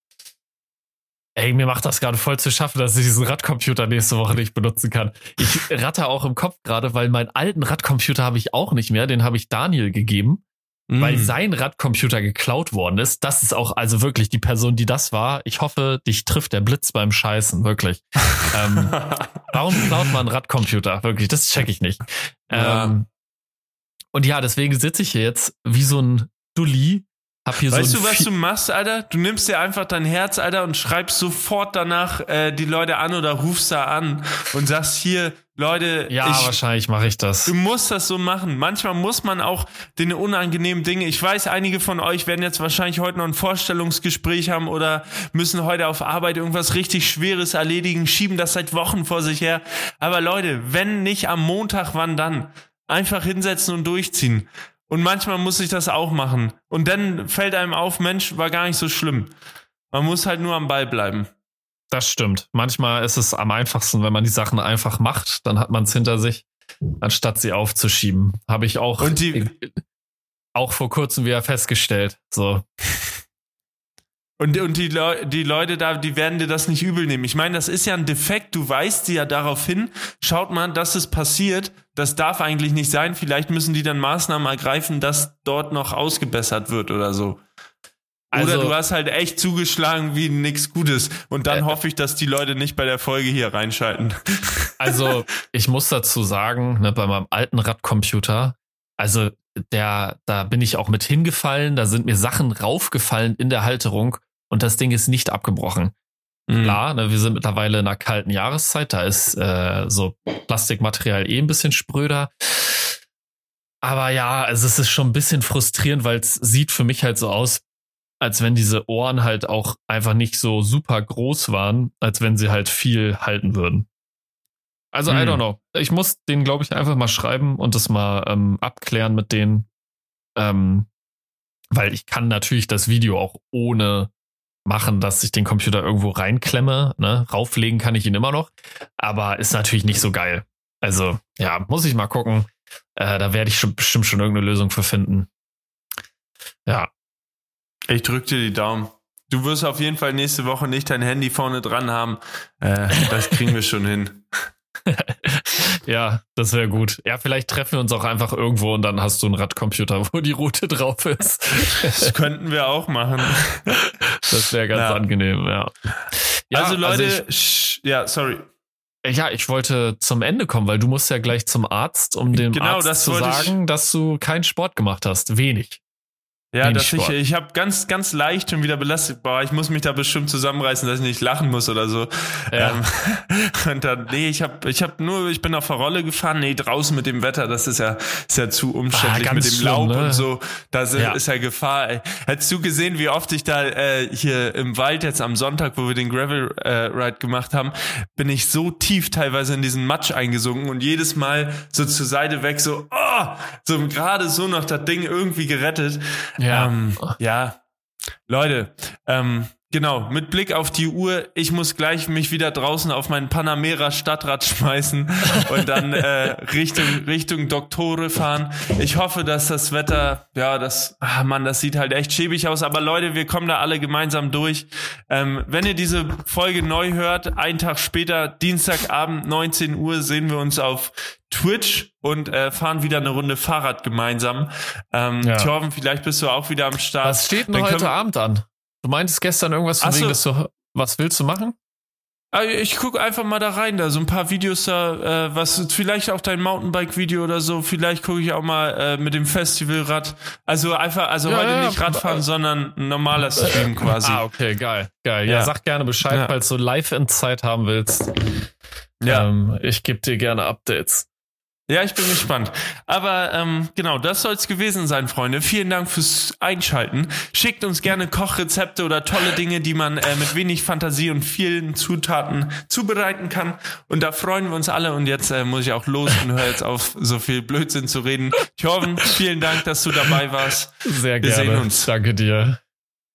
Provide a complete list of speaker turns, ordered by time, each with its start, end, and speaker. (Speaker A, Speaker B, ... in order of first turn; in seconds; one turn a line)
Speaker A: 1.4-10.4
Speaker B: 10.9-11.3
Speaker A: 11.0-18.9
Speaker B: 18.4-19.8
Speaker A: 19.5-23.1
Speaker B: 22.5-22.9
Speaker A: 24.1-28.3
Speaker B: 27.7-36.6
Speaker A: 36.1-37.5
Speaker B: 37.5-59.3
Speaker B: 59.9-61.3
Speaker A: 61.9-66.5
Speaker A: 67.0-69.8
Speaker B: 69.0-69.5
Speaker A: 70.5-72.6
Speaker B: 74.4-87.4
Speaker A: 88.3-88.7
Speaker B: 88.3-95.1
Speaker A: 94.8-105.9
Speaker B: 106.5-106.8
Speaker A: 106.6-113.0
Speaker A: 113.8-117.6
Speaker A: 118.2-123.9
Speaker A: 124.9-129.7
Speaker B: 125.1-125.4
Speaker A: 130.4-130.9
Speaker A: 131.7-134.1
Speaker A: 134.7-145.3
Speaker B: 147.9-154.3
Speaker A: 154.8-162.1
Speaker B: 161.8-163.8
Speaker A: 164.1-167.2
Speaker B: 164.7-165.0
Speaker B: 166.5-168.5
Speaker A: 169.0-175.8
Speaker B: 172.3-173.6
Speaker B: 176.5-207.6
Speaker A: 176.6-177.2
Speaker A: 182.5-182.8
Speaker A: 188.9-190.2
Speaker A: 206.4-207.1
Speaker B: 208.3-237.9
Speaker A: 235.2-235.5
Speaker A: 237.0-241.6
Speaker B: 239.8-240.2
Speaker B: 242.3-254.2
Speaker A: 251.3-252.2
Speaker A: 253.5-258.2
Speaker B: 255.2-255.5
Speaker B: 259.0-259.3
Speaker A: 259.1-261.1
Speaker B: 261.7-281.9
Speaker A: 280.9-282.6